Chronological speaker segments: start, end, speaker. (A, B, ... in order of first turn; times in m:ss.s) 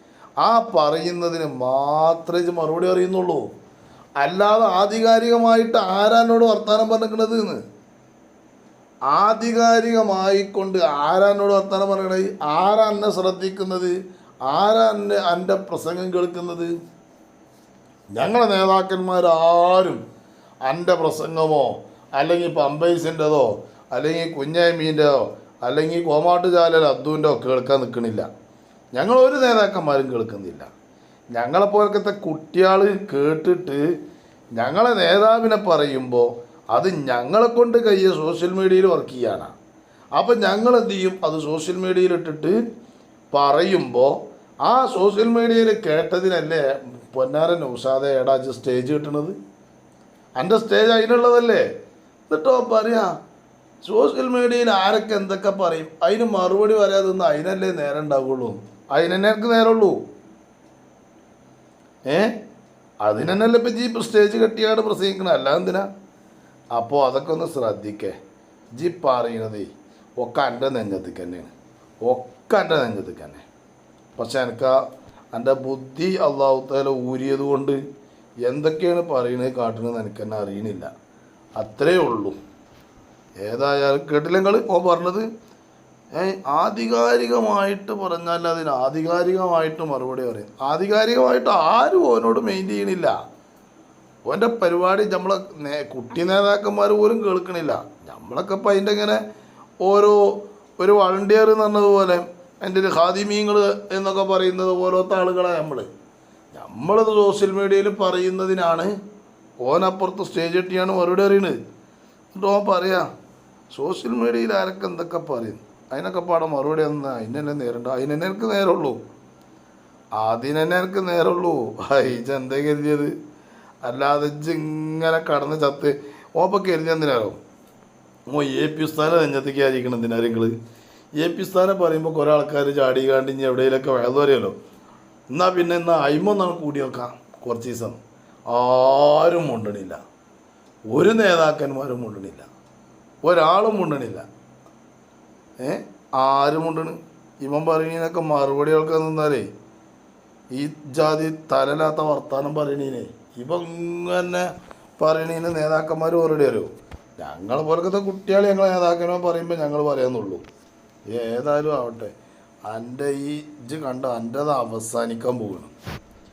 0:00.4-0:03.4 A
0:04.2-0:07.6 A
0:09.1-0:13.9 A
0:14.5-0:16.7 A
0:18.1-0:20.0 A
0:20.6-0:28.3 A
0:28.9-0:30.7 A
0:31.3-0:33.8 A
0:34.5-0:39.5 A
0:40.2-0:42.6 A
0:43.3-0:49.4 A
0:50.4-0:51.6 A
0:52.3-0:53.1 A
0:53.8-1:00.0 A
1:02.1-1:02.3 A
1:03.0-1:05.9 A
1:06.7-1:08.1 A
1:08.8-1:11.5 A
1:12.0-1:13.4 A
1:14.2-1:14.8 A
1:15.3-1:17.8 A
1:18.4-1:20.9 A
1:21.6-1:22.4 A
1:23.4-1:25.3 A
1:26.1-1:33.1 A
1:34.3-1:39.2 A
1:39.8-1:40.2 A
1:40.8-1:45.9 A
1:46.5-1:48.9 A
1:49.6-1:51.6 A
1:52.3-1:53.0 A
1:53.7-1:59.0 A
2:00.2-2:03.1 A
2:03.8-2:07.4 A
2:08.3-2:10.5 A
2:11.2-2:14.6 A
2:15.3-2:20.0 A
2:20.9-2:22.4 A
2:23.2-2:24.2 A
2:25.6-2:29.5 A
2:30.5-2:34.5 A
2:35.0-2:40.4 A
2:41.1-2:42.1 A
2:42.6-2:45.7 A